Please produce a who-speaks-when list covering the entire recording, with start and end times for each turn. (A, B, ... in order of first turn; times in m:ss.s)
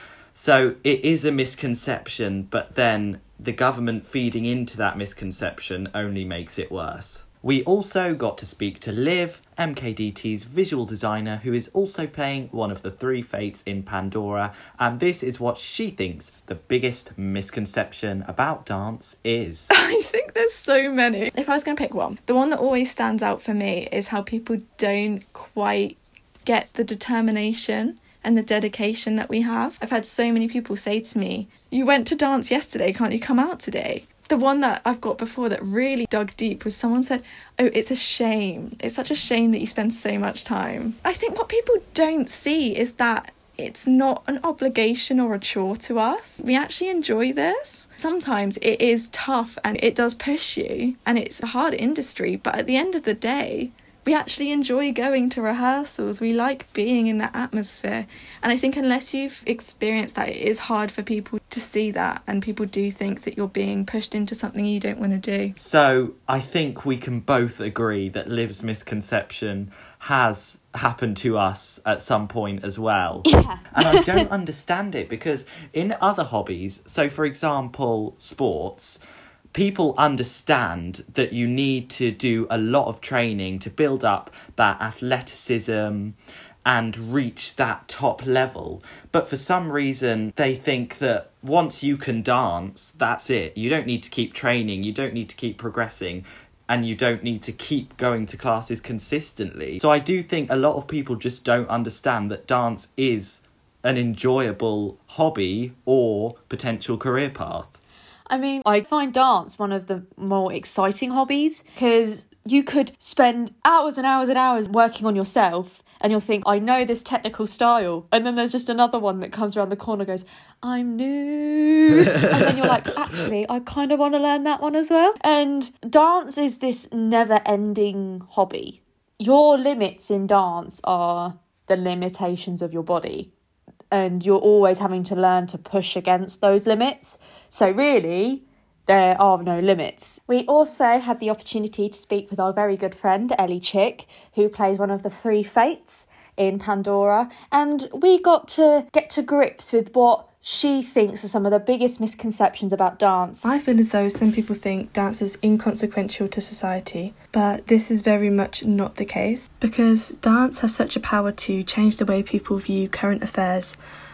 0:00.4-0:19.7 A
0:19.7-1:05.5 B
1:05.6-1:19.0 A
1:13.2-1:14.3 C
1:19.5-1:47.7 A
1:48.3-2:13.3 C
2:13.9-2:33.5 C
2:33.4-2:43.8 D